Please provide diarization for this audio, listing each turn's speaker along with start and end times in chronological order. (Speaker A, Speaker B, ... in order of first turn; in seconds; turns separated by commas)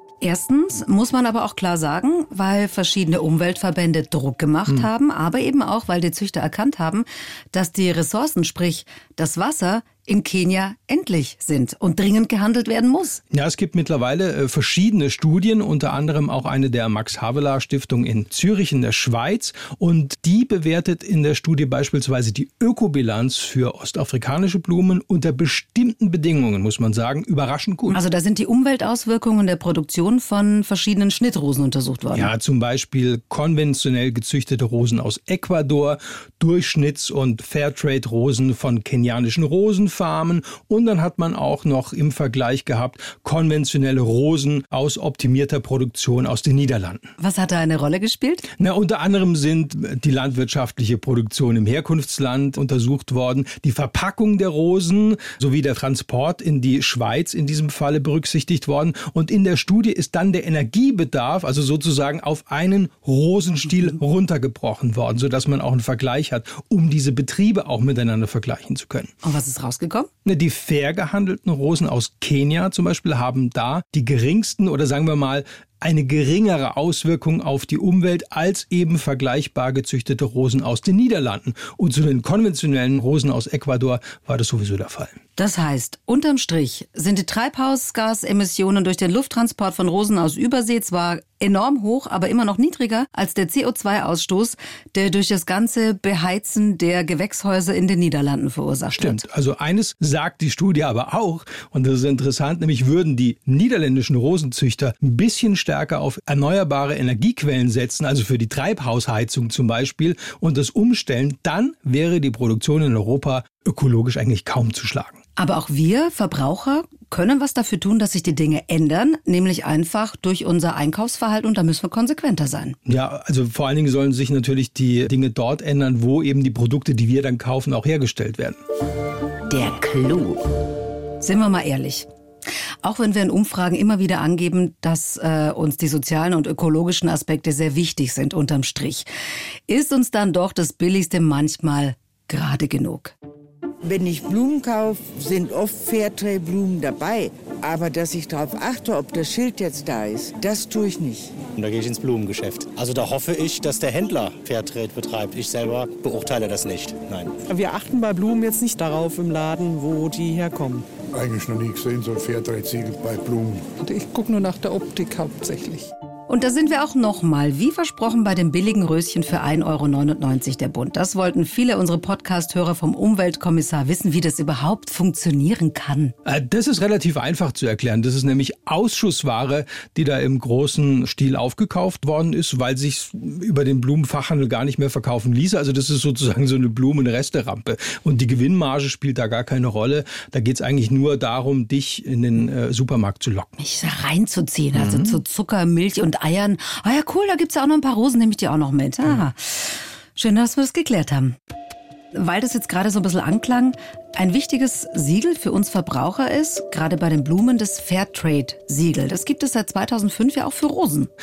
Speaker A: 0.2-13.2, Speaker B: 13.3-28.0, Speaker A: 27.9-32.3, Speaker B: 32.1-47.1, Speaker A: 47.2-48.5, Speaker B: 48.6-69.1, Speaker A: 69.2-70.1, Speaker B: 70.2-85.2, Speaker A: 85.4-99.2, Speaker B: 99.0-115.2, Speaker A: 115.4-122.8, Speaker B: 122.9-128.6, Speaker C: 129.8-130.4, Speaker A: 131.2-132.1, Speaker A: 132.8-139.1, Speaker A: 139.7-143.1, Speaker C: 143.8-151.3, Speaker D: 151.6-157.4, Speaker E: 157.5-160.9, Speaker F: 161.1-163.7, Speaker E: 163.8-165.9, Speaker A: 166.3-176.2, Speaker B: 176.2-193.5, Speaker A: 193.6-201.4, Speaker B: 194.7-195.2, Speaker A: 202.1-211.1